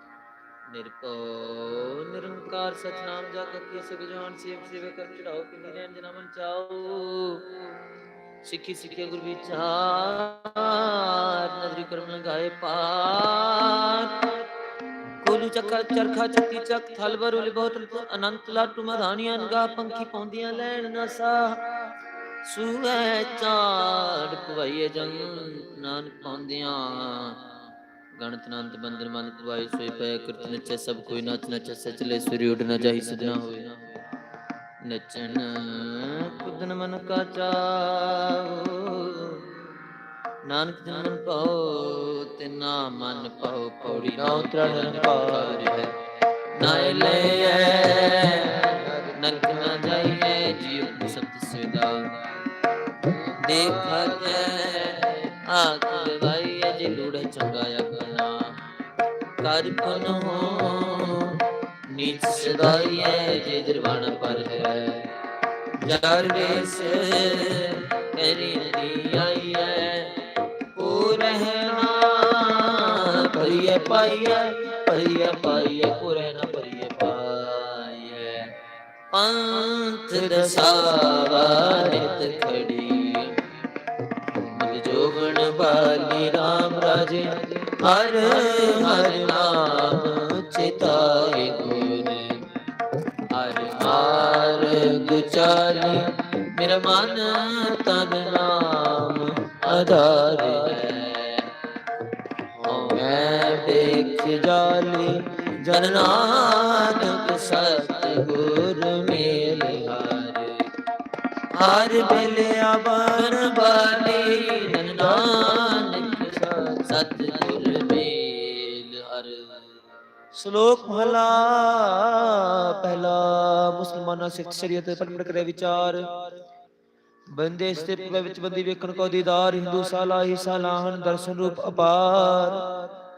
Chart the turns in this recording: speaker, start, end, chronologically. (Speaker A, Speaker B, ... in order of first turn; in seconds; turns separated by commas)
Speaker A: 0.7-7.5, Speaker A: 8.4-14.4, Speaker A: 15.2-21.6, Speaker A: 22.4-27.5, Speaker A: 28.1-33.9, Speaker A: 34.8-39.6, Speaker A: 40.5-46.0, Speaker B: 43.9-45.9, Speaker A: 46.5-52.2, Speaker B: 48.7-49.7, Speaker A: 53.4-58.6, Speaker A: 59.4-65.1, Speaker A: 65.8-78.6, Speaker A: 79.1-83.4, Speaker A: 84.4-92.5, Speaker B: 88.3-88.9, Speaker A: 93.3-101.5, Speaker B: 102.5-105.1, Speaker A: 102.7-110.6, Speaker A: 111.5-119.8, Speaker B: 111.9-116.8, Speaker B: 120.3-126.1, Speaker B: 127.3-132.7